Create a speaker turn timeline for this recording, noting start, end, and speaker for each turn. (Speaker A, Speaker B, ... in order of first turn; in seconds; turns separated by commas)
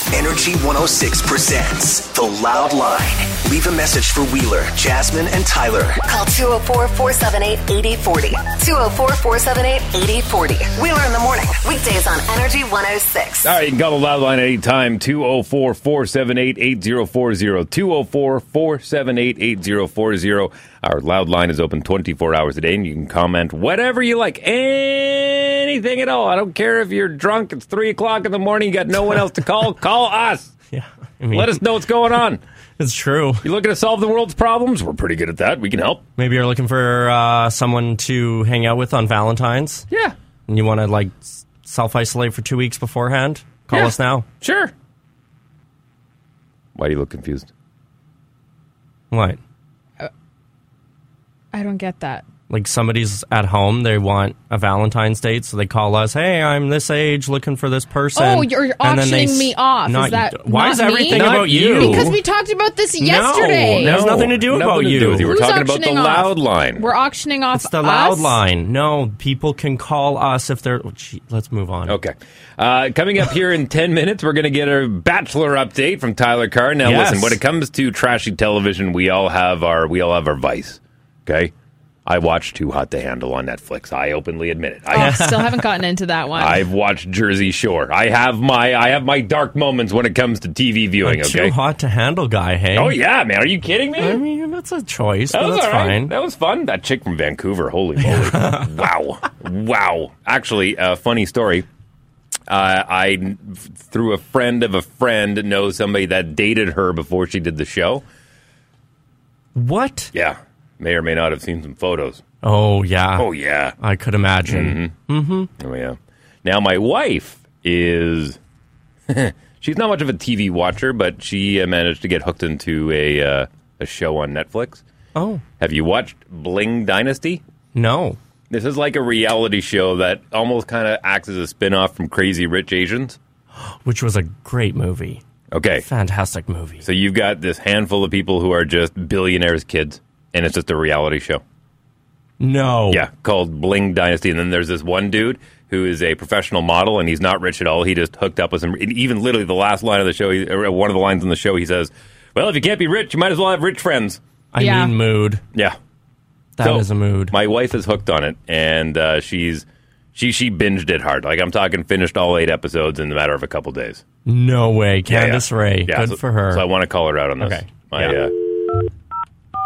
Speaker A: 0.1-6.0, Speaker B: 6.0-13.5, Speaker C: 13.4-30.5, Speaker D: 30.7-31.6, Speaker C: 31.3-32.4, Speaker D: 32.8-33.4, Speaker C: 33.4-36.0, Speaker D: 36.2-39.9, Speaker C: 39.9-40.1, Speaker D: 40.5-44.2, Speaker C: 44.4-44.7, Speaker C: 46.7-47.5, Speaker D: 49.1-49.4, Speaker E: 51.5-52.2, Speaker D: 52.5-62.2, Speaker E: 58.1-64.0, Speaker C: 61.1-62.2, Speaker D: 63.0-65.3, Speaker C: 63.8-66.9, Speaker E: 65.2-68.4, Speaker D: 67.5-72.0, Speaker C: 71.9-81.5, Speaker D: 76.8-77.4, Speaker C: 82.0-85.2, Speaker E: 84.9-86.6, Speaker D: 84.9-85.6, Speaker C: 86.3-91.5, Speaker D: 91.0-93.0, Speaker C: 92.7-94.2, Speaker D: 94.0-96.1, Speaker C: 95.3-101.7, Speaker D: 98.0-98.8, Speaker C: 102.5-108.0, Speaker D: 109.5-110.1, Speaker C: 110.1-112.2, Speaker D: 112.4-115.5, Speaker C: 113.2-113.7, Speaker C: 114.4-114.9, Speaker C: 115.6-118.4, Speaker C: 119.1-124.8, Speaker D: 125.1-125.4, Speaker C: 125.6-127.4, Speaker D: 127.7-128.2, Speaker C: 128.5-133.2, Speaker D: 133.6-135.2, Speaker C: 135.5-135.8, Speaker D: 135.8-136.8, Speaker C: 136.8-141.4, Speaker D: 142.4-143.1, Speaker C: 142.9-154.2, Speaker D: 154.5-155.4, Speaker E: 154.6-154.9, Speaker D: 156.6-157.3, Speaker C: 156.6-164.0, Speaker D: 164.2-166.7, Speaker C: 165.1-168.3, Speaker D: 167.4-168.2